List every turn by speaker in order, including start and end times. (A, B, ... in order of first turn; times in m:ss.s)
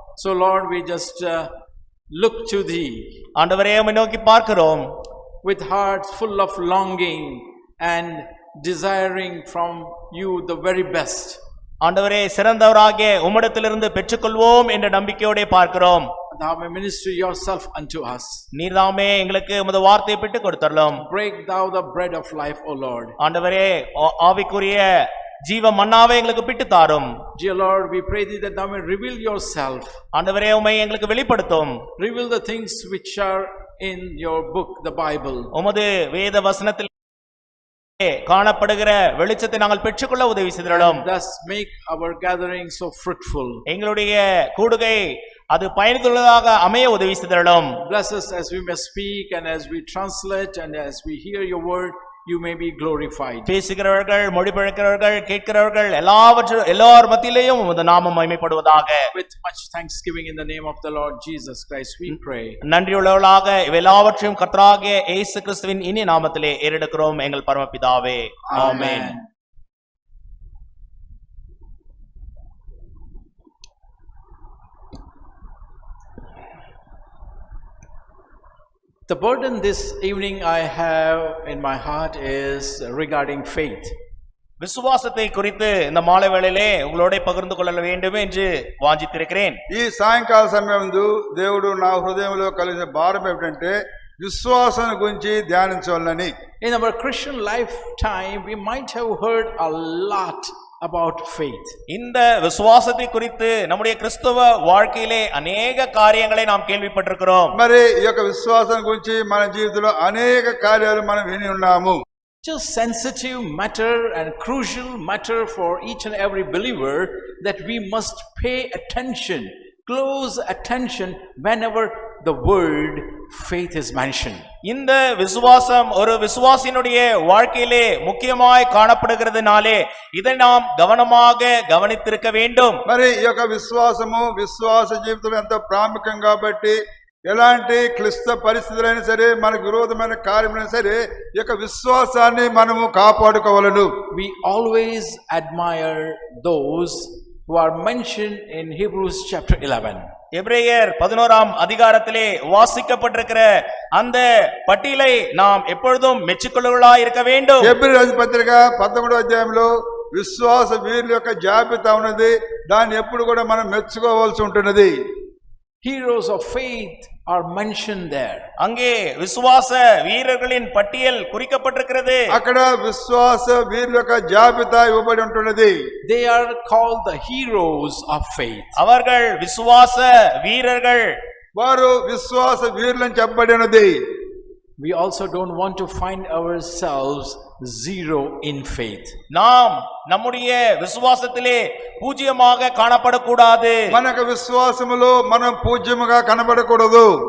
0:00.2-0:01.5 A
0:02.1-0:03.0 A
0:03.4-0:04.9 B
0:05.4-0:11.4 A
0:11.8-0:16.1 B
0:16.3-0:18.4 A
0:18.5-0:21.0 B
0:21.0-0:23.2 A
0:23.2-0:24.9 B
0:25.4-0:27.1 B
0:27.4-0:30.0 A
0:30.1-0:31.8 B
0:32.0-0:35.5 A
0:35.5-0:36.9 B
0:38.0-0:41.0 B
0:40.7-0:43.6 A
0:43.7-0:47.8 B
0:47.8-0:53.5 A
0:53.5-0:59.0 B
0:59.1-1:02.6 A
1:02.6-1:09.1 B
1:08.5-1:09.2 A
1:19.1-1:23.9 A
1:24.6-1:29.6 B
1:29.7-1:36.3 C
1:36.6-1:41.8 A
1:41.9-1:47.6 B
1:47.6-1:52.0 C
1:52.4-2:04.4 A
2:04.6-2:12.8 B
2:12.8-2:23.9 C
2:24.1-2:30.1 A
2:30.3-2:37.7 B
2:37.6-2:44.9 C
2:45.8-2:48.5 A
2:48.6-2:52.3 B
2:52.3-2:55.7 C
2:56.0-2:58.8 A
2:58.8-3:01.1 B
3:01.6-3:04.0 C
3:04.8-3:09.1 A
3:09.3-3:13.8 B
3:13.9-3:17.1 C